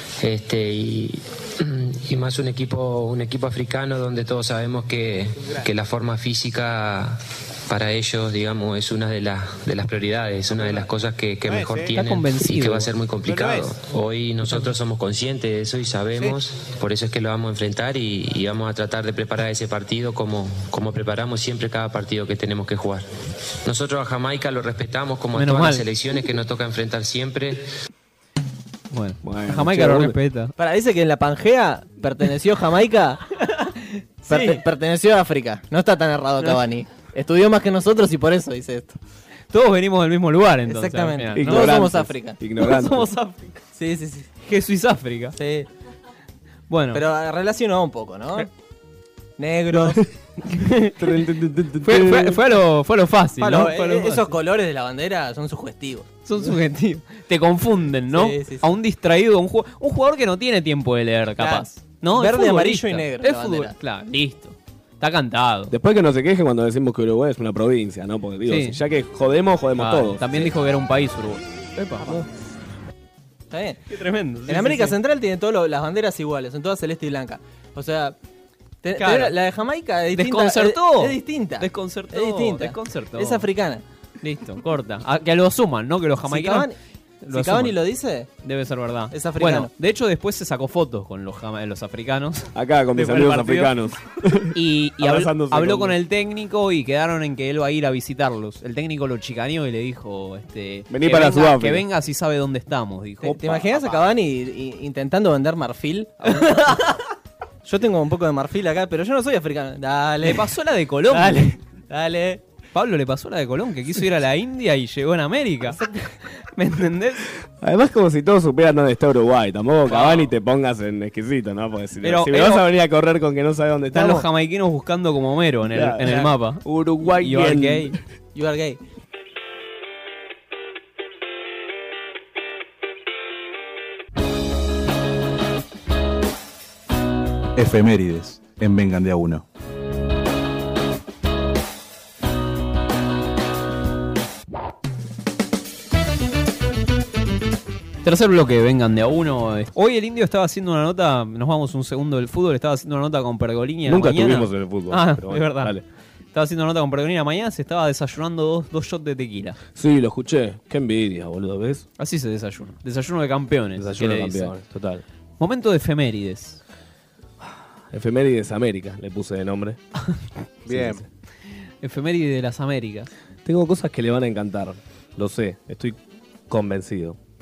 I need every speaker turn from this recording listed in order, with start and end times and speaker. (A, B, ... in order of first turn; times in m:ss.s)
0:00.2-0:23.0 A
0:05.3-0:05.7 B
0:10.5-0:10.9 B
0:11.4-0:12.0 B
0:11.9-0:12.9 C
0:13.2-0:13.8 B
0:14.4-0:14.7 B
0:16.1-0:16.4 B
0:23.6-0:27.6 A
0:25.3-0:25.8 C
0:28.9-0:30.5 C
0:29.2-0:30.2 D
0:30.6-0:33.2 E
0:33.4-0:34.6 C
0:34.3-0:39.0 E
0:39.5-0:41.8 C
0:40.7-0:42.4 E
0:41.4-0:43.1 D
0:42.6-0:43.6 C
0:43.8-0:44.3 E
0:44.4-0:45.4 C
0:45.4-0:45.7 E
0:46.7-0:47.0 C
0:46.9-0:48.5 E
0:49.4-0:50.0 E
0:49.7-0:50.0 D
0:50.5-0:51.0 C
0:51.0-0:52.6 D
0:51.8-0:54.3 C
0:53.4-0:56.1 E
0:56.2-1:05.7 C
0:58.1-0:58.7 E
1:01.4-1:03.7 E
1:05.7-1:10.5 D
1:08.4-1:08.8 C
1:09.8-1:12.1 C
1:13.5-1:13.8 E
1:13.9-1:15.0 C
1:14.5-1:18.1 E
1:18.8-1:23.8 E
1:19.0-1:19.4 C
1:20.1-1:23.4 C
1:24.2-1:26.7 C
1:26.3-1:26.8 E
1:27.2-1:27.8 C
1:27.3-1:28.3 E
1:28.4-1:33.7 C
1:29.1-1:29.7 E
1:32.5-1:36.0 D
1:34.5-1:43.4 C
1:40.9-1:41.8 D
1:43.2-1:46.8 E
1:43.3-1:43.6 D
1:46.3-1:47.0 C
1:47.6-1:50.5 E
1:50.2-1:51.5 C
1:51.1-1:52.4 E
1:52.7-1:57.3 C
1:55.7-1:55.9 E
1:57.6-2:04.2 D
1:59.9-2:00.3 C
2:02.0-2:02.7 C
2:03.9-2:07.9 C
2:05.7-2:08.0 D
2:08.3-2:08.8 E
2:17.6-2:19.4 B
2:28.0-2:35.8 C
2:33.8-2:35.8 D
2:36.3-2:39.6 C
2:39.7-2:41.8 D
2:42.0-2:44.5 C
2:43.8-2:45.0 D
2:45.4-2:46.6 C
2:47.4-2:49.8 D
2:50.6-2:51.0 B
2:50.7-2:51.0 D
2:51.8-2:53.1 C
2:53.4-2:56.0 D
2:56.5-2:57.2 D